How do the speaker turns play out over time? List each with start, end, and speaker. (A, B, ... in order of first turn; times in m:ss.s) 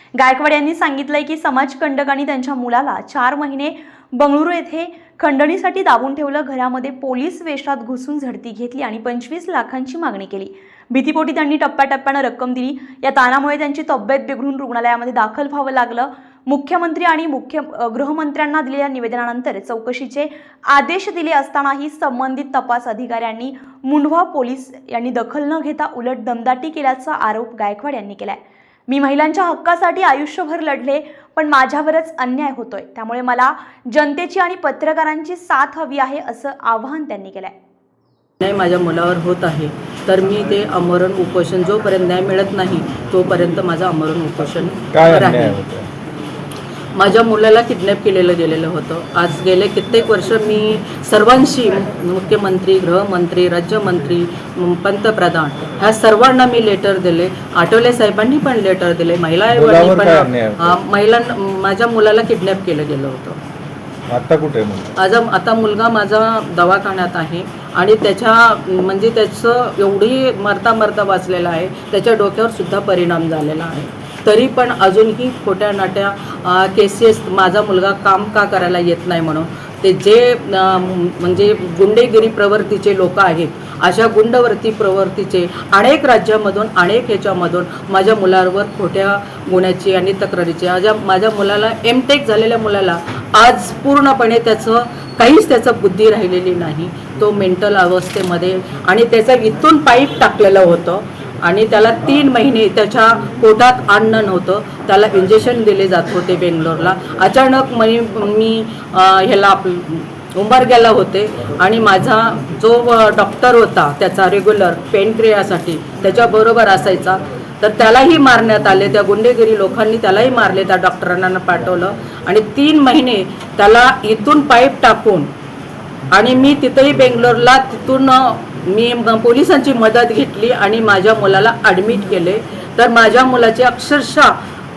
0:00.2-0:37.5 A
0:38.4-0:45.6 B
0:44.9-0:45.9 C
0:47.0-1:03.4 B
0:59.5-1:00.6 C
1:04.1-1:04.9 C
1:05.0-2:05.3 B
2:06.1-2:14.3 B